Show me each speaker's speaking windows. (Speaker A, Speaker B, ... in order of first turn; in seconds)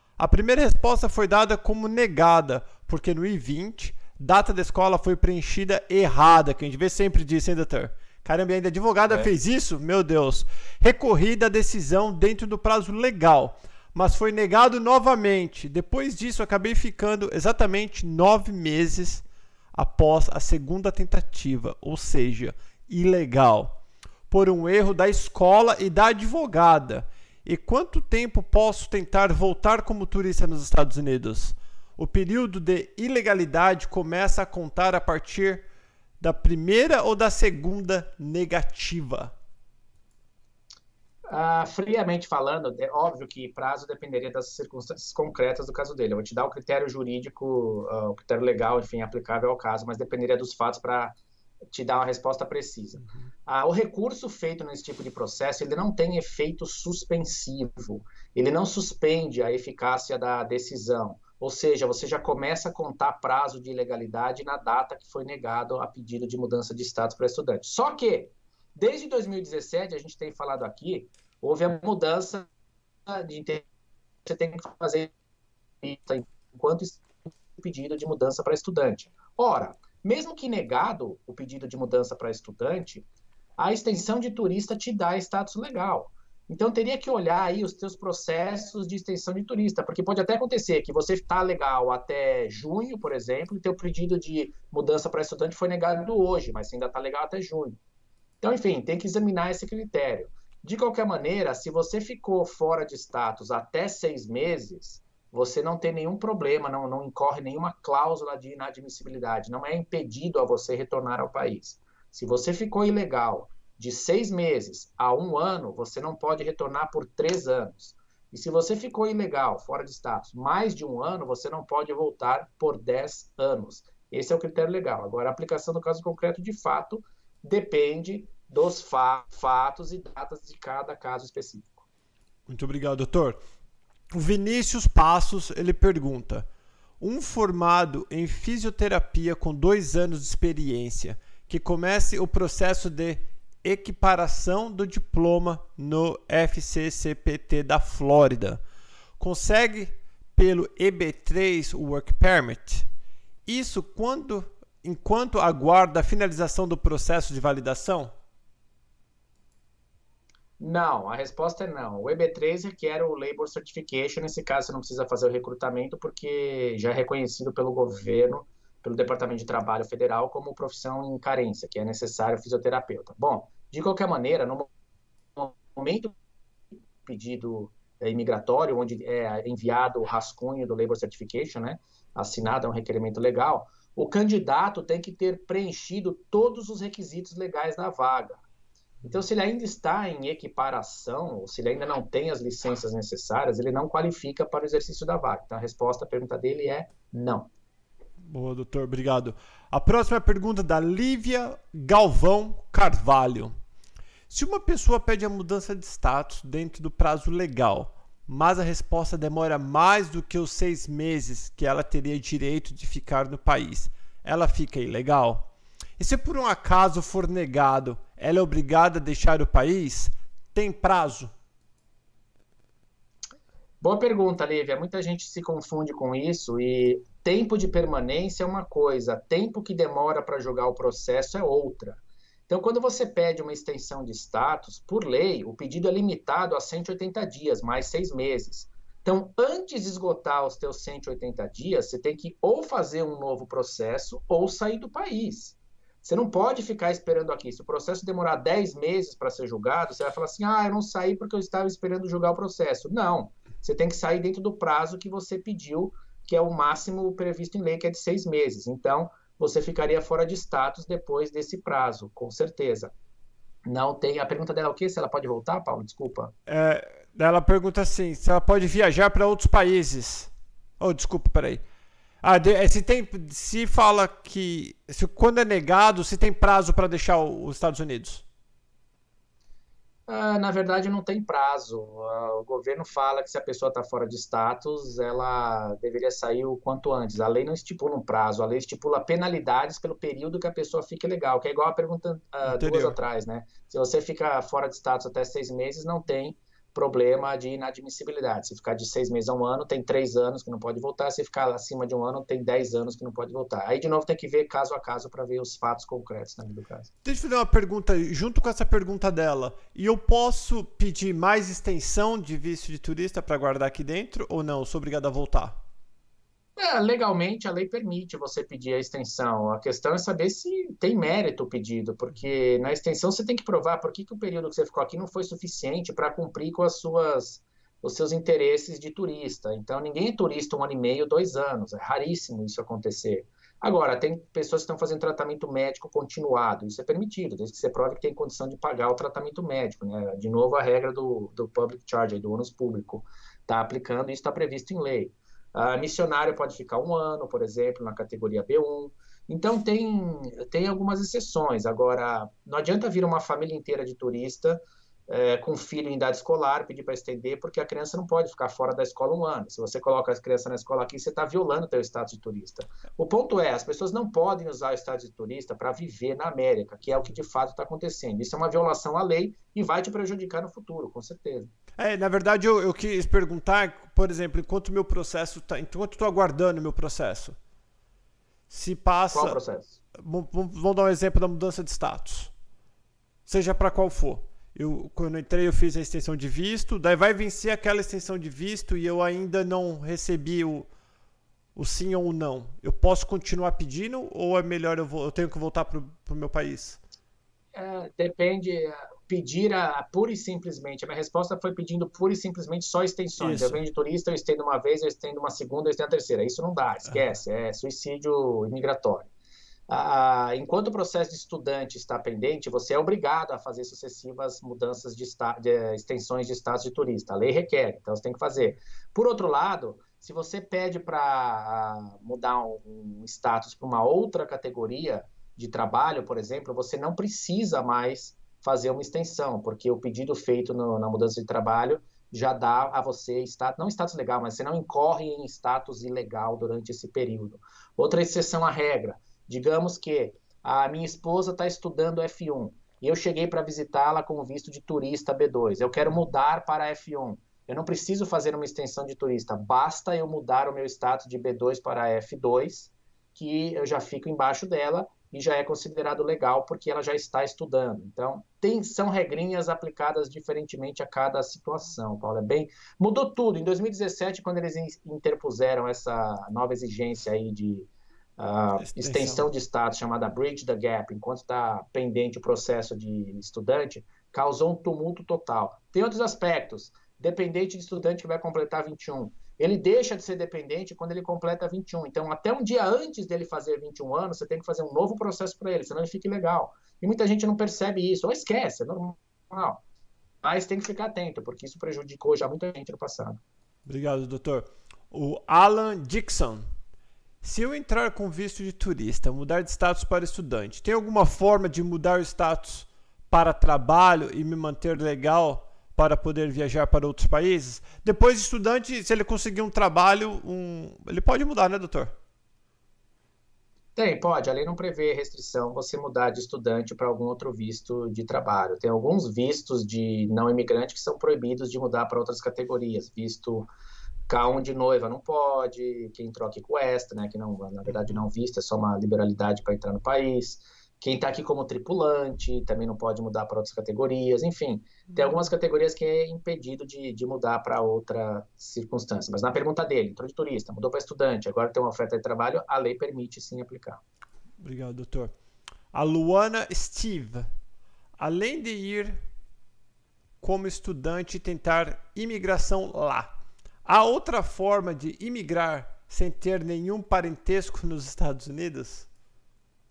Speaker A: 0.2-35.6, 36.2-39.3, 132.5-133.4, 134.1-136.5, 137.0-148.6, 149.2-152.9, 153.5-158.1, 198.3-203.5, 204.3-221.3, 266.5-271.6, 272.2-278.2, 292.4-293.0, 307.0-315.6, 371.8-377.4, 378.5-379.4, 379.9-382.3, 383.3-390.7, 391.6-396.8, 403.2-403.6, 468.6-469.3, 493.7-496.4, 497.2-511.9, 527.7-528.0, 544.4-545.1, 545.7-547.3, 548.0-549.0, 550.2-553.1, 553.7-558.9
Speaker B: 41.3-51.1, 51.7-72.5, 73.1-73.7, 74.2-75.1, 75.8-83.1, 83.6-97.8, 98.4-131.8, 160.6-174.7, 175.4-176.1, 177.0-188.4, 189.1-197.5, 223.8-262.9, 263.7-266.3, 280.1-306.9, 316.6-371.5, 379.1-379.8, 397.6-409.1, 409.7-489.6, 490.2-493.2, 513.8-523.5, 524.1-543.8